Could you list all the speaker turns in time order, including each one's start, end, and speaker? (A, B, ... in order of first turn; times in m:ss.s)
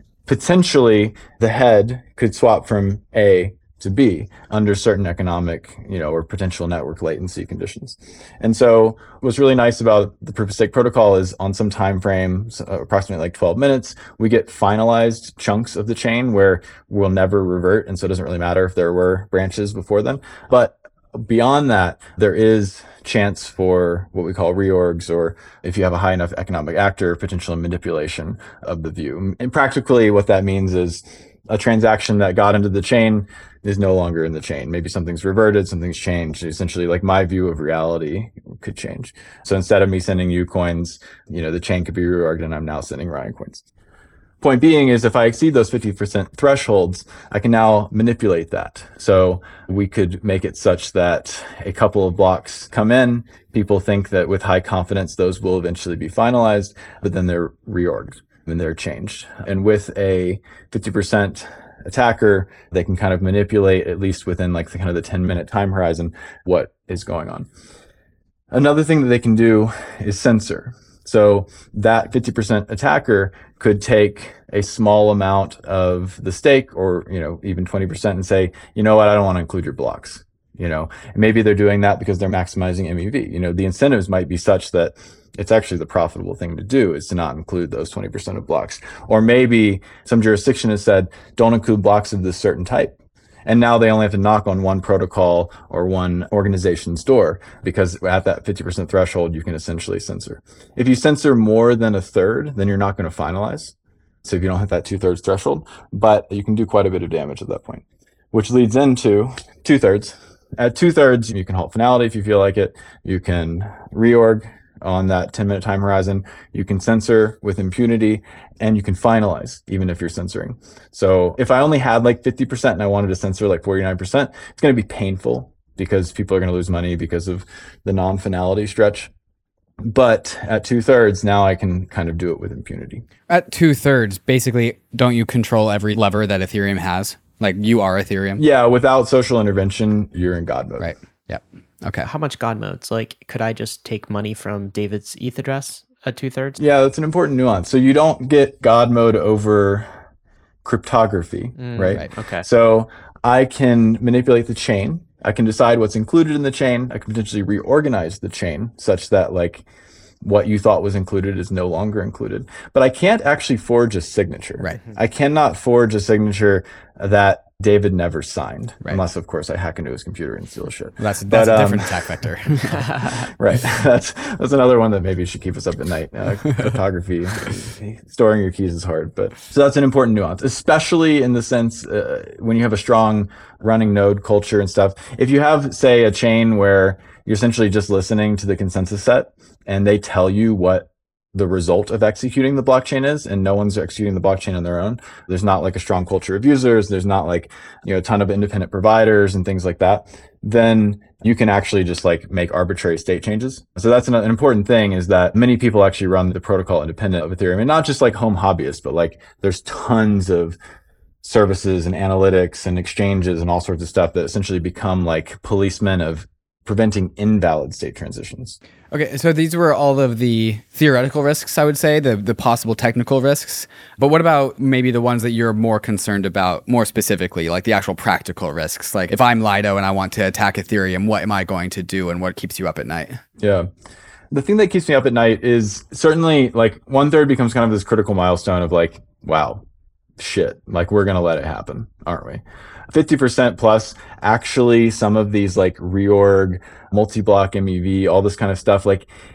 0:00.2-0:43.7 A
0:44.4-1:07.5 A
1:08.5-1:32.9 A
1:33.4-2:09.1 A
2:09.8-2:13.0 A
2:13.3-2:18.4 B
2:18.4-2:20.9 A
2:20.8-2:22.1 B
2:22.0-2:26.6 C
2:26.6-2:29.9 A
2:30.6-2:39.6 A
2:31.6-2:32.4 C
2:40.2-2:52.0 A
2:51.0-2:53.3 B
2:52.7-3:30.6 A
3:31.2-3:38.6 A
3:38.9-3:53.2 B
3:53.4-3:53.7 A
3:54.3-3:59.6 A
4:00.2-4:09.1 A